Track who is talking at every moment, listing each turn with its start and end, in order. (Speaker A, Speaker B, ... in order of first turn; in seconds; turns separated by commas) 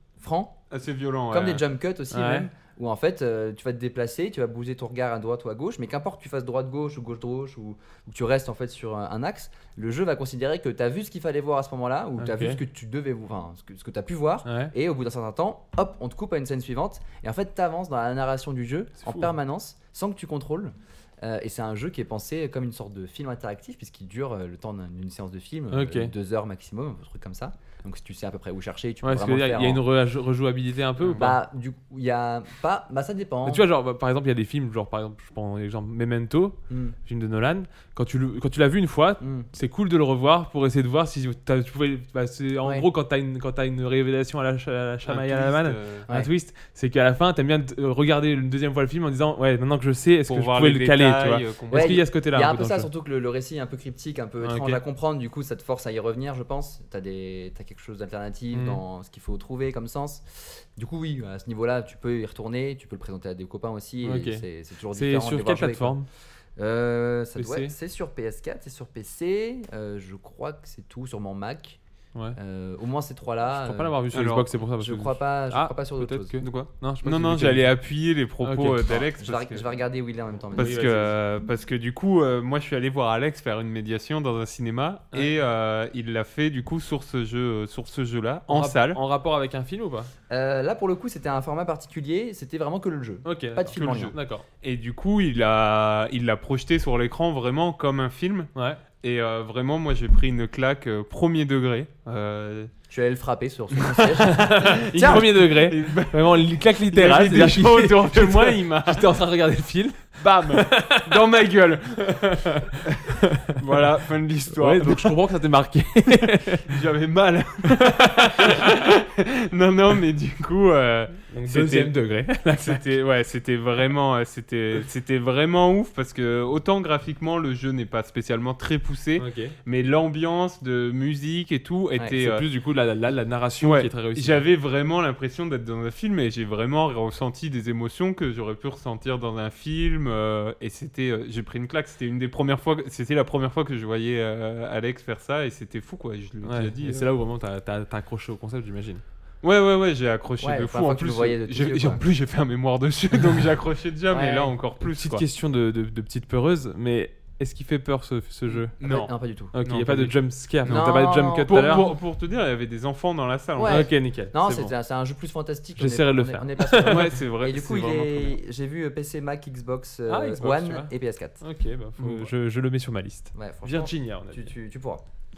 Speaker A: 0.2-0.6, Speaker B: 0.7-1.6, Speaker A: 1.3-29.8, Speaker C: 2.1-2.5, Speaker C: 12.2-12.6, Speaker C: 14.5-14.7, Speaker C: 19.0-19.3, Speaker C: 25.7-26.1, Speaker C: 29.0-31.4, Speaker A: 31.1-33.6, Speaker C: 33.5-52.9, Speaker A: 36.7-37.0, Speaker A: 39.2-39.5, Speaker B: 45.0-46.1, Speaker B: 50.3-52.0, Speaker A: 51.7-66.0, Speaker C: 54.4-54.8, Speaker C: 58.5-58.8, Speaker C: 64.0-66.1, Speaker A: 66.6-71.8, Speaker C: 67.4-67.7, Speaker A: 72.4-74.0, Speaker C: 73.5-77.7, Speaker B: 74.1-74.5, Speaker A: 74.8-76.4, Speaker B: 76.4-79.7, Speaker C: 78.4-79.0, Speaker A: 79.2-81.1, Speaker B: 80.5-89.0, Speaker C: 80.6-81.1, Speaker C: 88.5-90.1, Speaker A: 90.3-94.2, Speaker C: 93.2-94.5, Speaker B: 93.7-102.7, Speaker C: 98.5-98.8, Speaker A: 102.9-105.3, Speaker C: 104.3-111.2, Speaker B: 104.8-109.0, Speaker B: 110.2-115.1, Speaker C: 112.1-113.5, Speaker C: 114.5-116.7, Speaker B: 116.7-121.9, Speaker C: 117.8-118.7, Speaker C: 121.3-122.8, Speaker B: 122.5-132.4, Speaker C: 129.2-129.6, Speaker C: 132.1-134.4, Speaker B: 133.6-147.1, Speaker C: 146.4-149.0, Speaker B: 149.4-155.2, Speaker A: 150.4-152.0, Speaker A: 154.1-154.5, Speaker C: 154.8-158.7, Speaker B: 158.5-159.1, Speaker A: 158.8-159.6, Speaker C: 159.5-161.9, Speaker B: 159.7-163.9, Speaker A: 160.7-161.9, Speaker A: 163.6-171.4, Speaker C: 163.7-164.7, Speaker C: 165.8-167.1, Speaker B: 166.8-168.4, Speaker C: 170.1-170.9, Speaker C: 171.4-174.5, Speaker B: 172.0-172.3, Speaker A: 173.3-175.0